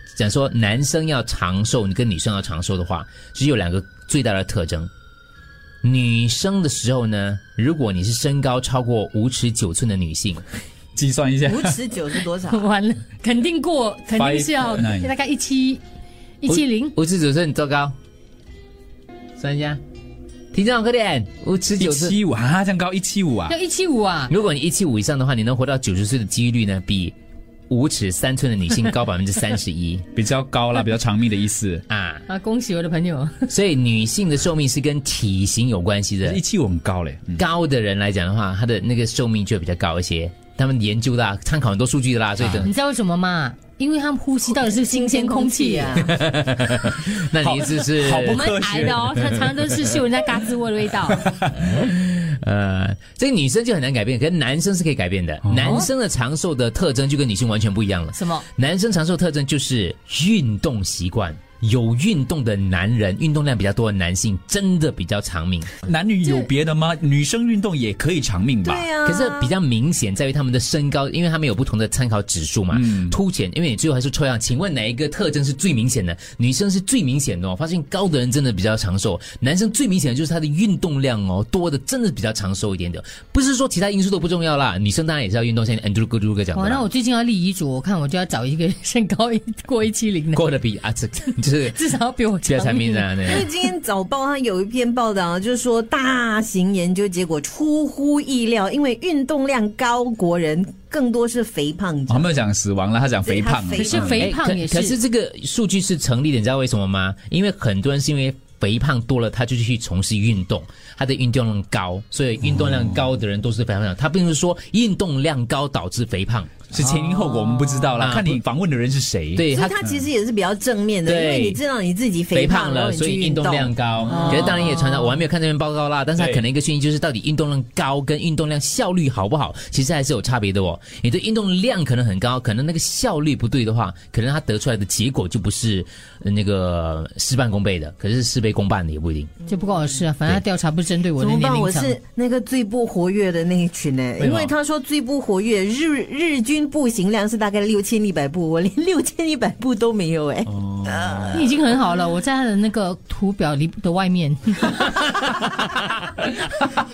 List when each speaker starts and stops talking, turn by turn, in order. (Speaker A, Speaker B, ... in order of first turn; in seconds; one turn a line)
Speaker A: 0.2-4.9
Speaker A: 5.8-10.4
Speaker B: 11.0-11.8
Speaker C: 11.4-12.6
Speaker D: 12.5-15.8
Speaker B: 14.1-15.1
Speaker D: 16.4-16.9
Speaker A: 16.5-17.9
Speaker A: 19.4-19.8
Speaker A: 20.5-22.1
Speaker B: 21.8-23.6
Speaker D: 23.5-24.3
Speaker A: 24.3-27.1
Speaker A: 27.7-30.1
Speaker B: 30.1-31.9
Speaker A: 31.9-32.2
Speaker D: 32.3-33.5
Speaker A: 33.5-36.4
Speaker B: 36.2-37.4
Speaker A: 37.4-42.7
Speaker B: 42.4-42.7
Speaker D: 42.6-46.1
Speaker C: 44.5-46.1
Speaker A: 46.0-48.5
Speaker B: 47.4-49.5
Speaker D: 48.3-51.4
Speaker B: 51.2-51.7
Speaker A: 51.4-65.8
Speaker B: 55.5-55.8
Speaker D: 58.1-58.5
Speaker B: 65.8-68.9
Speaker C: 68.6-69.5
Speaker A: 69.0-86.9
Speaker B: 72.7-73.2
Speaker D: 86.5-90.5
Speaker A: 90.3-91.8
Speaker D: 91.7-93.4
Speaker A: 92.4-93.5
Speaker C: 93.2-102.3
Speaker B: 102.1-104.2
Speaker C: 103.2-104.3
Speaker D: 103.8-105.0
Speaker A: 104.1-117.0
Speaker B: 116.7-119.5
Speaker A: 117.9-118.4
Speaker A: 119.4-119.8
Speaker C: 119.5-124.7
Speaker A: 121.0-121.6
Speaker A: 122.3-139.3
Speaker B: 124.2-124.6
Speaker B: 126.2-126.5
Speaker D: 139.5-142.0
Speaker C: 141.2-151.5
Speaker B: 144.2-144.5
Speaker B: 150.6-151.4
Speaker D: 151.3-155.3
Speaker B: 155.0-156.2